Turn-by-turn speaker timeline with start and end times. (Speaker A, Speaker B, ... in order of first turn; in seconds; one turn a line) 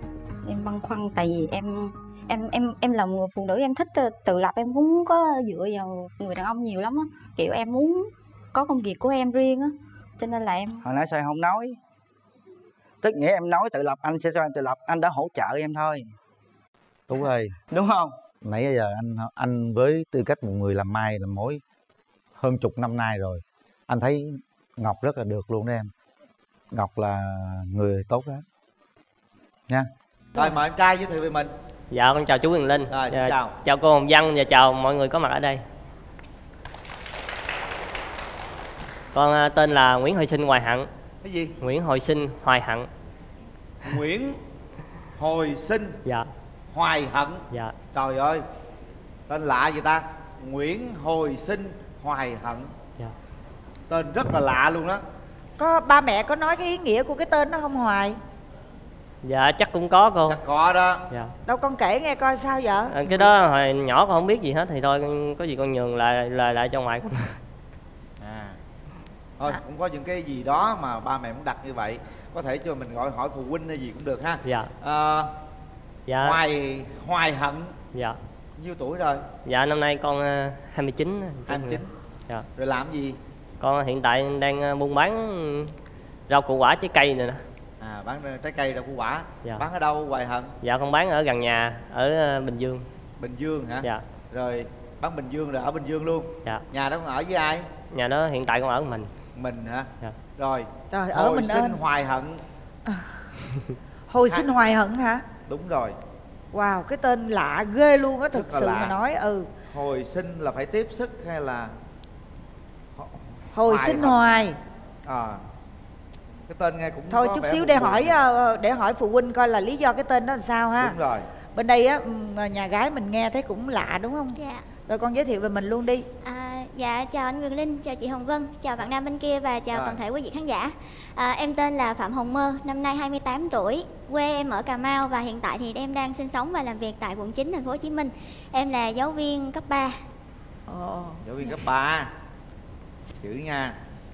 Speaker A: 0.4-10.8
Speaker B: 10.8-11.8
Speaker B: 13.0-16.1
Speaker C: 17.1-17.5
Speaker B: 17.7-18.1
Speaker C: 18.4-21.6
Speaker C: 22.4-25.9
Speaker C: 26.7-28.4
Speaker C: 29.7-31.5
Speaker D: 31.9-35.6
Speaker C: 32.9-33.5
Speaker D: 39.1-40.9
Speaker C: 41.2-41.5
Speaker D: 41.6-42.9
Speaker C: 43.8-44.4
Speaker C: 45.2-46.0
Speaker D: 46.0-46.3
Speaker C: 46.7-48.4
Speaker C: 49.3-52.7
Speaker C: 53.9-55.0
Speaker E: 55.6-58.2
Speaker D: 59.2-60.4
Speaker C: 60.3-61.0
Speaker E: 61.5-63.3
Speaker D: 62.9-67.4
Speaker C: 68.2-68.6
Speaker C: 69.4-75.3
Speaker D: 74.5-74.7
Speaker D: 76.1-76.4
Speaker C: 76.2-77.8
Speaker D: 77.9-78.2
Speaker C: 78.6-79.2
Speaker D: 79.4-82.5
Speaker C: 81.5-81.9
Speaker C: 82.5-83.2
Speaker D: 83.6-85.7
Speaker D: 86.3-87.4
Speaker C: 87.8-90.5
Speaker D: 90.6-92.9
Speaker C: 93.2-97.7
Speaker D: 97.9-99.1
Speaker C: 99.3-102.4
Speaker E: 100.9-101.8
Speaker E: 102.8-103.3
Speaker E: 104.1-105.2
Speaker C: 105.5-106.0
Speaker E: 106.5-109.5
Speaker C: 108.3-109.0
Speaker C: 109.7-111.8
Speaker C: 113.0-114.3
Speaker E: 113.5-114.6
Speaker C: 115.0-115.4
Speaker C: 116.5-118.2
Speaker E: 117.1-120.9
Speaker C: 120.8-121.3
Speaker E: 121.5-126.0
Speaker F: 124.3-124.6
Speaker F: 126.2-140.1
Speaker C: 129.7-130.0
Speaker E: 140.7-141.6
Speaker C: 141.2-142.1
Speaker C: 143.2-143.8